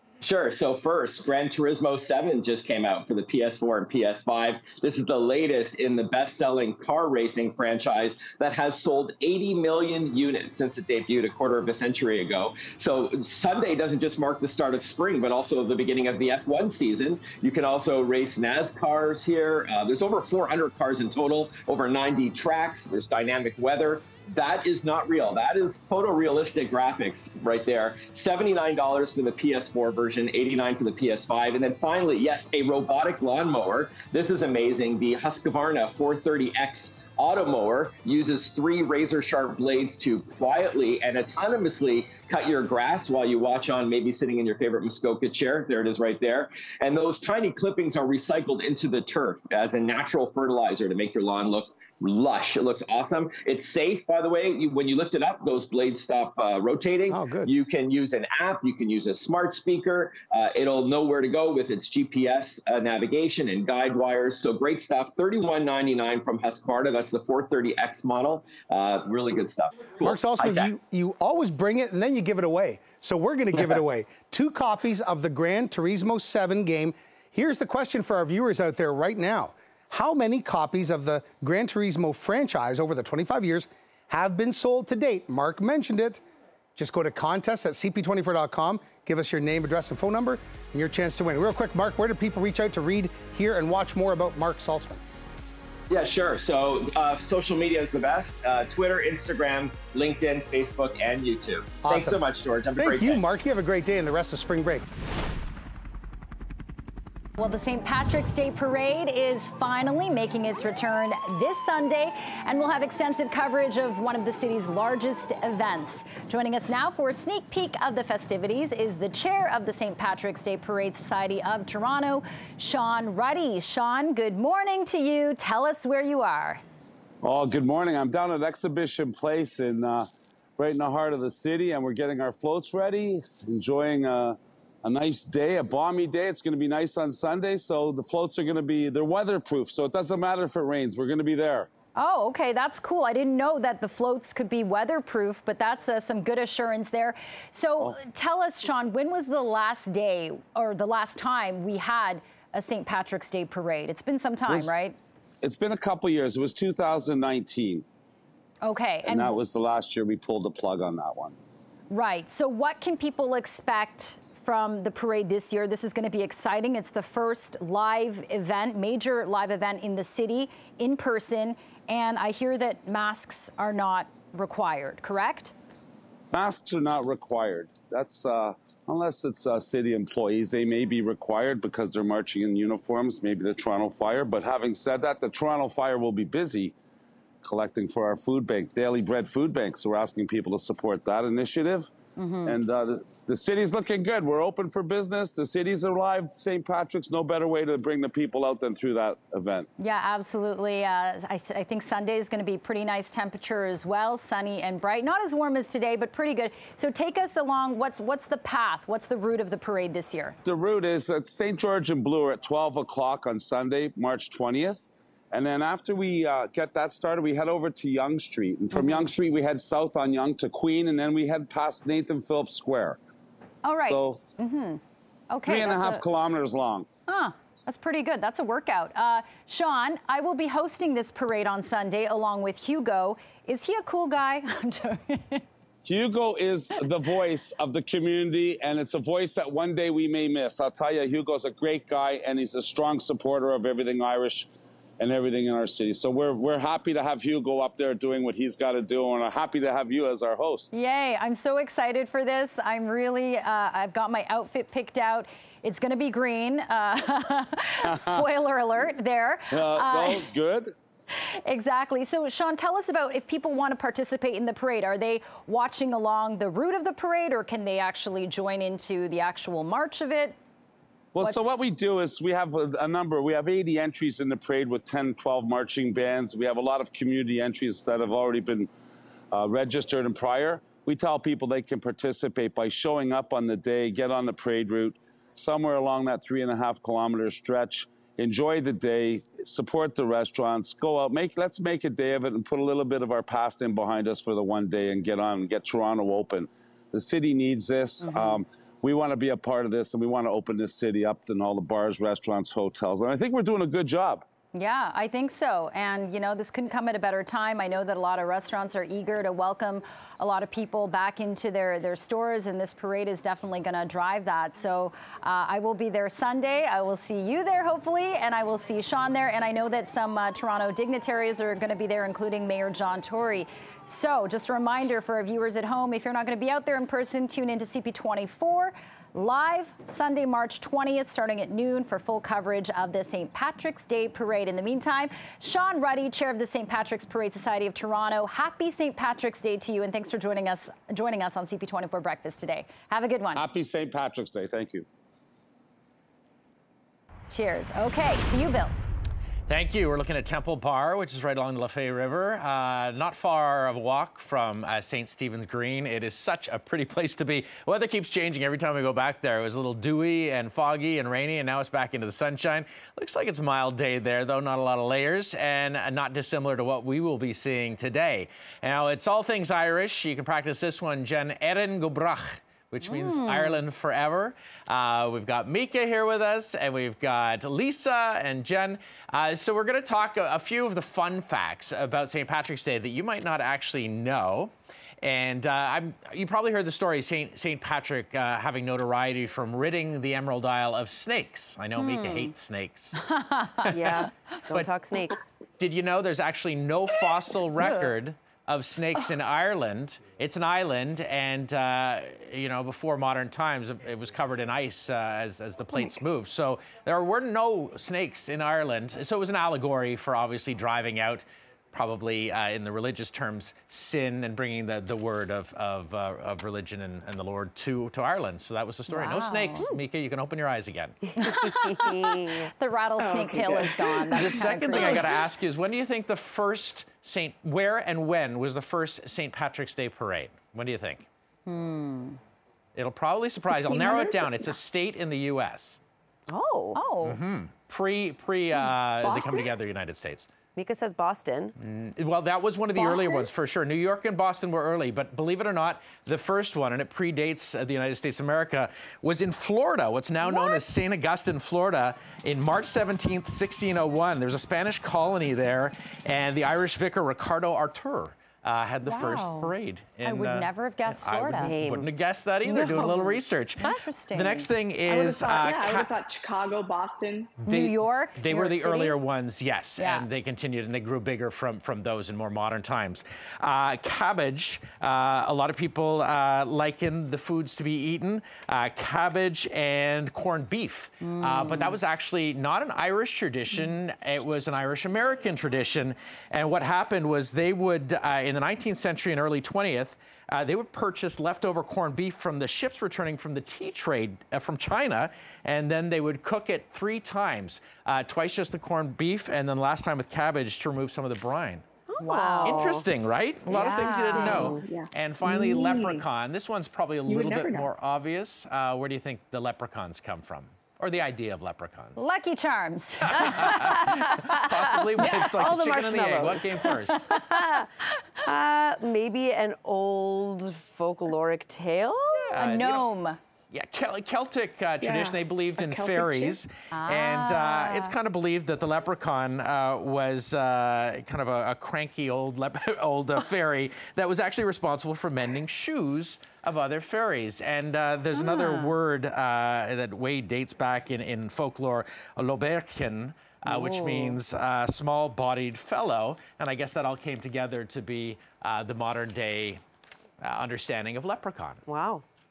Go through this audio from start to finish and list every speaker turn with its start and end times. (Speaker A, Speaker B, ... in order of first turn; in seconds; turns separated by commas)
Speaker A: 0.2-70.7, Speaker B: 57.1-57.5, Speaker B: 70.0-86.2, Speaker B: 86.8-95.0, Speaker A: 95.9-103.2, Speaker B: 101.8-102.2, Speaker B: 102.8-104.8, Speaker C: 107.4-126.6, Speaker D: 127.2-141.7, Speaker C: 141.9-154.9, Speaker D: 154.5-154.7, Speaker D: 155.4-157.8, Speaker C: 158.6-159.4, Speaker D: 159.0-161.4, Speaker C: 161.9-175.5, Speaker D: 176.3-186.7, Speaker D: 187.4-191.9, Speaker C: 192.2-192.6, Speaker D: 192.4-199.7, Speaker C: 199.8-210.4, Speaker D: 210.4-223.0, Speaker C: 223.6-226.0, Speaker D: 223.8-224.2, Speaker D: 225.4-226.9, Speaker C: 227.1-235.4, Speaker D: 235.8-244.5, Speaker D: 245.0-250.7, Speaker C: 250.7-260.3, Speaker D: 257.9-258.2, Speaker D: 259.5-260.8, Speaker C: 261.1-270.4, Speaker D: 271.1-278.7, Speaker C: 271.2-271.5, Speaker D: 279.3-304.2, Speaker C: 298.0-298.4, Speaker C: 304.5-343.4, Speaker D: 343.4-344.9, Speaker C: 347.3-348.8, Speaker E: 349.5-393.0, Speaker C: 372.9-373.6, Speaker C: 391.8-392.3, Speaker C: 393.0-393.7, Speaker E: 393.6-394.7, Speaker F: 393.7-395.3, Speaker E: 395.6-421.0, Speaker C: 397.6-397.9, Speaker C: 418.9-419.7, Speaker C: 421.2-425.1, Speaker F: 421.2-422.5, Speaker G: 423.0-425.1, Speaker E: 424.1-431.1, Speaker C: 431.5-432.2, Speaker E: 432.7-435.8, Speaker G: 433.5-434.5, Speaker F: 436.3-436.8, Speaker C: 436.7-437.2, Speaker E: 437.0-440.3, Speaker F: 440.6-441.5, Speaker E: 441.6-465.9, Speaker C: 442.8-443.2, Speaker C: 450.2-450.6, Speaker C: 458.8-461.5, Speaker F: 461.1-461.9, Speaker F: 462.4-463.7, Speaker C: 463.6-464.5, Speaker G: 464.9-467.4, Speaker E: 467.4-501.6, Speaker C: 467.5-469.0, Speaker C: 469.8-470.1, Speaker C: 481.0-481.8, Speaker F: 501.9-502.9, Speaker C: 502.0-502.8, Speaker E: 502.4-512.0, Speaker F: 503.4-504.6, Speaker C: 503.5-504.6, Speaker G: 504.5-506.1, Speaker G: 507.1-507.7, Speaker C: 511.9-513.9, Speaker E: 513.1-517.0, Speaker F: 513.2-517.7, Speaker C: 516.9-517.6, Speaker F: 518.2-522.4, Speaker E: 522.3-522.9, Speaker C: 522.3-523.2, Speaker E: 523.5-549.6, Speaker G: 524.8-526.4, Speaker C: 526.7-527.9, Speaker C: 538.1-538.7, Speaker F: 543.5-544.2, Speaker E: 550.2-551.6, Speaker F: 551.6-552.0